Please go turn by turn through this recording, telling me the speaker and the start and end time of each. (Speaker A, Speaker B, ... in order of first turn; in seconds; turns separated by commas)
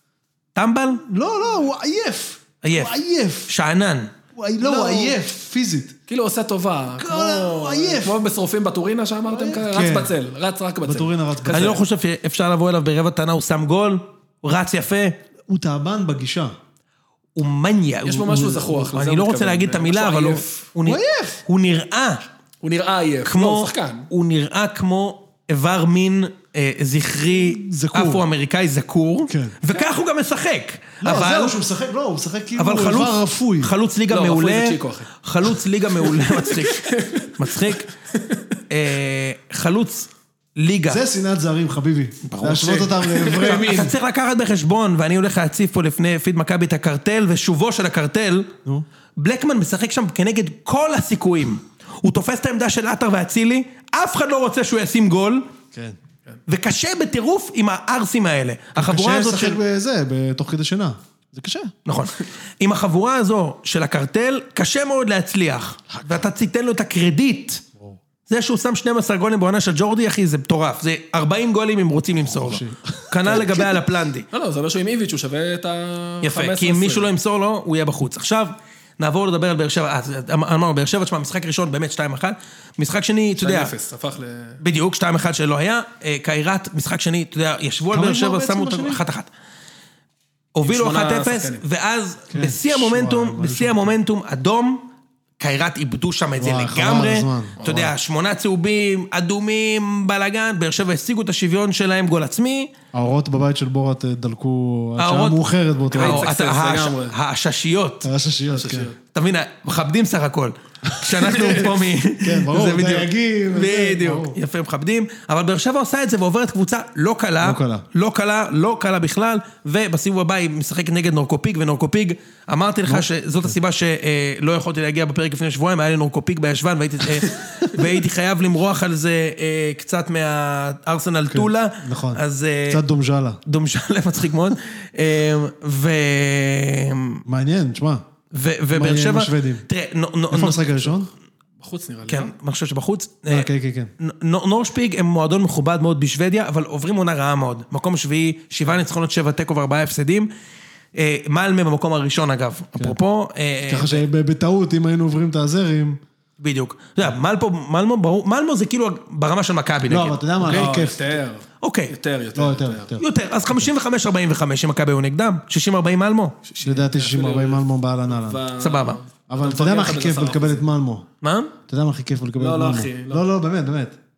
Speaker A: 0.6-1.0, Speaker B: 1.1-3.5, Speaker A: 2.6-2.9, Speaker A: 3.5-4.1, Speaker B: 4.3-6.0, Speaker C: 4.6-5.2, Speaker C: 6.1-11.8, Speaker B: 7.0-8.2, Speaker B: 9.3-10.1, Speaker B: 10.8-11.8, Speaker A: 11.5-15.2, Speaker B: 15.5-16.5, Speaker A: 17.4-22.2, Speaker C: 18.1-20.7, Speaker B: 20.8-21.4, Speaker C: 22.6-24.1, Speaker A: 23.3-31.6, Speaker B: 27.3-28.2, Speaker B: 29.3-29.6, Speaker B: 31.0-33.7, Speaker A: 32.6-37.9, Speaker C: 34.1-35.1, Speaker C: 36.0-38.6, Speaker A: 38.7-41.0, Speaker B: 40.9-44.0, Speaker A: 42.2-48.5, Speaker C: 42.7-43.9, Speaker A: 49.2-55.5, Speaker A: 56.5-59.6, Speaker B: 58.8-61.8, Speaker A: 61.9-67.7, Speaker A: 68.3-74.3, Speaker B: 72.2-73.8, Speaker C: 74.3-77.1, Speaker A: 76.2-83.7, Speaker C: 83.4-84.6, Speaker A: 84.6-89.3, Speaker B: 87.9-89.0, Speaker A: 90.5-94.9, Speaker C: 90.6-91.6, Speaker B: 92.3-93.9, Speaker A: 95.4-102.7, Speaker B: 96.4-97.9, Speaker B: 102.9-106.3, Speaker A: 105.0-105.4, Speaker C: 105.9-107.2, Speaker A: 105.9-108.1, Speaker B: 108.0-108.9, Speaker C: 108.5-109.0, Speaker A: 109.1-132.8, Speaker B: 110.9-114.4, Speaker B: 117.4-117.9, Speaker B: 122.9-123.6, Speaker B: 131.3-133.4, Speaker A: 133.5-137.2, Speaker B: 137.3-138.0, Speaker A: 138.3-140.7, Speaker B: 138.7-139.7, Speaker B: 140.3-141.1, Speaker C: 141.6-142.3, Speaker A: 142.1-143.5, Speaker B: 143.3-143.9, Speaker A: 144.0-150.3, Speaker A: 150.9-154.0, Speaker B: 153.7-156.0, Speaker A: 156.4-160.7, Speaker B: 159.9-161.2, Speaker C: 160.4-162.9, Speaker A: 161.6-161.9, Speaker B: 162.3-163.7, Speaker A: 163.0-166.4, Speaker C: 166.4-170.7, Speaker B: 166.6-168.5, Speaker A: 168.6-169.0, Speaker B: 169.3-171.1, Speaker A: 171.2-171.5, Speaker B: 171.7-174.0, Speaker C: 172.4-173.3